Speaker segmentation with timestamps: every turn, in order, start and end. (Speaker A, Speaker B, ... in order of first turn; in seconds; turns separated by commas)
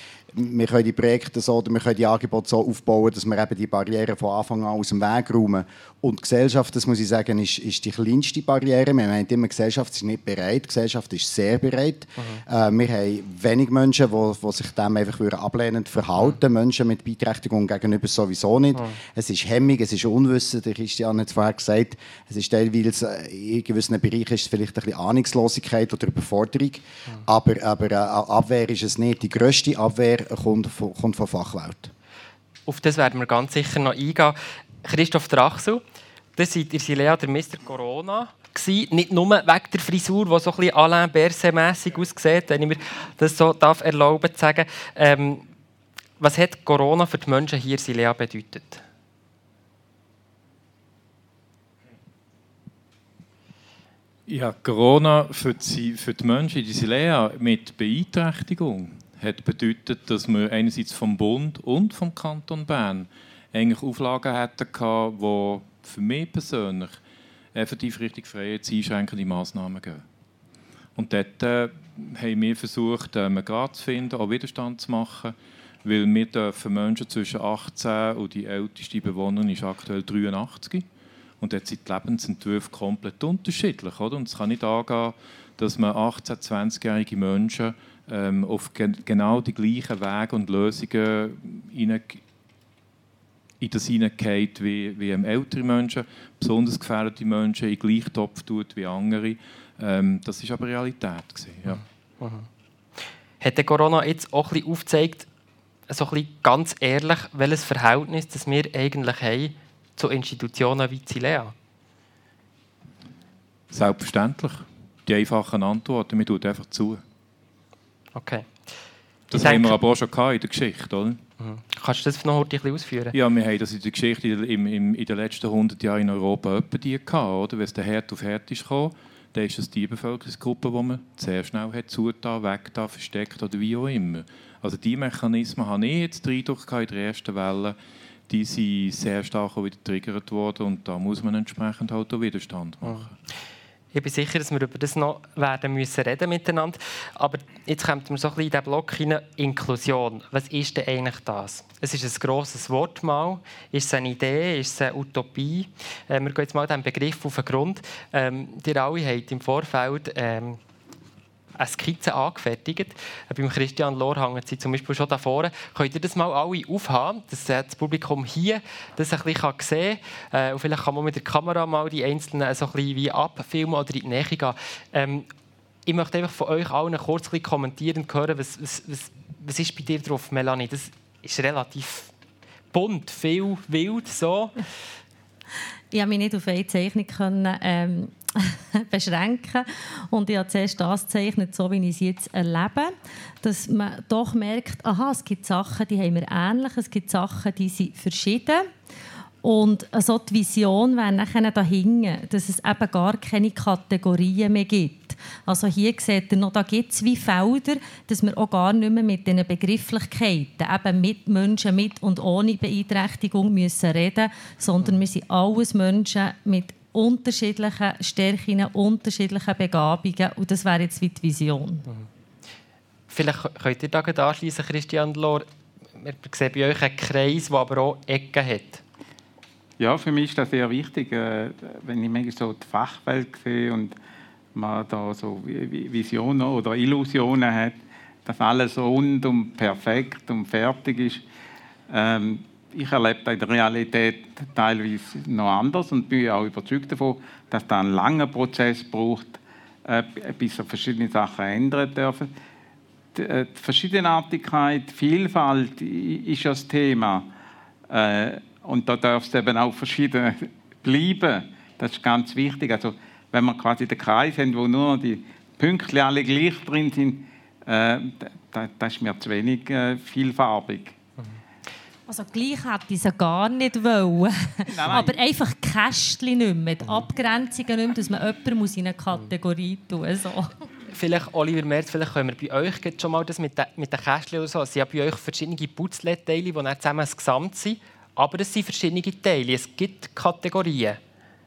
Speaker A: 0.3-31.9, Speaker B: 12.2-12.4, Speaker B: 32.7-35.8, Speaker B: 36.4-45.4, Speaker B: 46.2-48.8, Speaker C: 54.3-67.0, Speaker C: 67.5-70.0, Speaker C: 71.0-80.9, Speaker C: 81.4-92.2, Speaker C: 93.6-101.8, Speaker B: 101.7-102.5, Speaker B: 103.4-105.3, Speaker B: 105.9-111.5, Speaker C: 113.7-117.0, Speaker B: 118.2-118.5, Speaker C: 119.3-121.2, Speaker B: 119.4-119.8, Speaker B: 121.4-123.2, Speaker C: 123.1-137.8, Speaker C: 138.3-143.1, Speaker B: 143.9-160.6, Speaker B: 161.6-175.3, Speaker B: 175.9-182.1, Speaker B: 182.7-184.6, Speaker D: 185.9-198.7, Speaker D: 199.4-221.8, Speaker B: 223.1-228.8, Speaker E: 229.8-234.0, Speaker E: 234.6-241.2, Speaker E: 241.9-252.3, Speaker E: 253.2-257.3, Speaker E: 257.9-271.0, Speaker D: 272.1-280.5, Speaker E: 274.7-275.2, Speaker B: 280.9-291.0